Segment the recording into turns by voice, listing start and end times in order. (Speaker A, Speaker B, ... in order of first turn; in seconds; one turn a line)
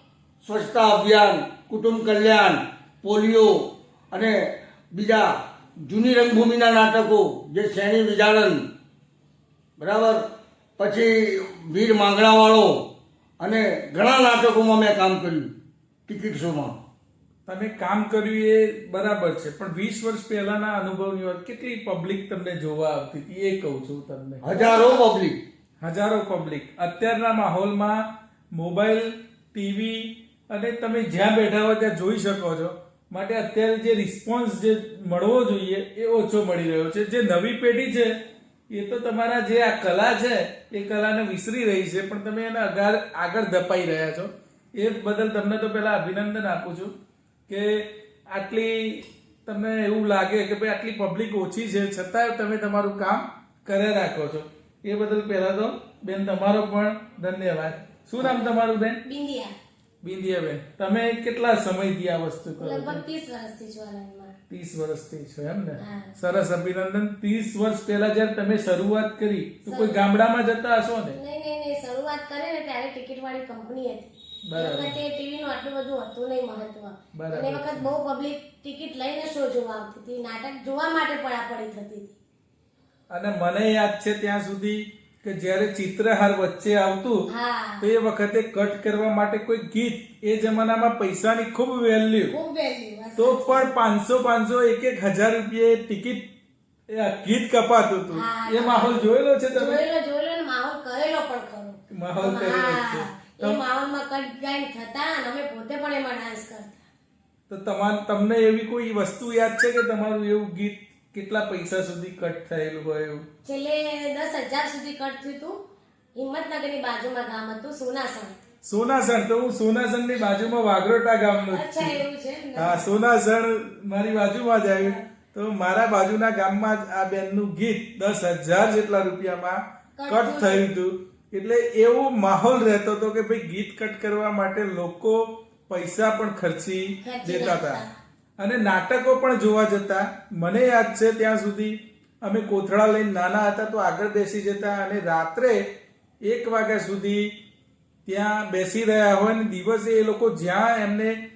Speaker A: 0.4-8.6
Speaker A: 9.8-10.2
Speaker A: 10.8-12.8
Speaker A: 13.4-15.5
Speaker A: 16.1-16.7
Speaker B: 17.4-24.4
Speaker A: 24.4-25.4
Speaker C: 24.5-25.1
Speaker B: 25.8-38.1
Speaker B: 38.7-46.9
Speaker B: 47.5-59.0
Speaker C: 58.2-58.5
Speaker C: 59.0-59.5
Speaker B: 60.0-63.0
Speaker C: 62.6-64.3
Speaker B: 64.5-71.2
Speaker C: 65.8-66.2
Speaker C: 69.7-70.0
Speaker C: 71.1-82.2
Speaker B: 74.4-74.9
Speaker B: 77.1-77.9
Speaker B: 83.1-87.3
Speaker C: 87.3-87.9
Speaker B: 87.8-92.3
Speaker C: 92.3-93.7
Speaker B: 93.2-96.2
Speaker B: 96.9-99.8
Speaker C: 98.1-106.9
Speaker B: 101.9-103.6
Speaker B: 107.5-113.2
Speaker C: 113.4-115.6
Speaker C: 116.1-118.3
Speaker B: 118.6-122.0
Speaker C: 121.4-122.9
Speaker B: 122.5-137.8
Speaker C: 124.8-125.0
Speaker C: 129.9-130.7
Speaker C: 137.0-137.9
Speaker B: 138.4-145.6
Speaker B: 146.2-147.3
Speaker B: 148.1-151.2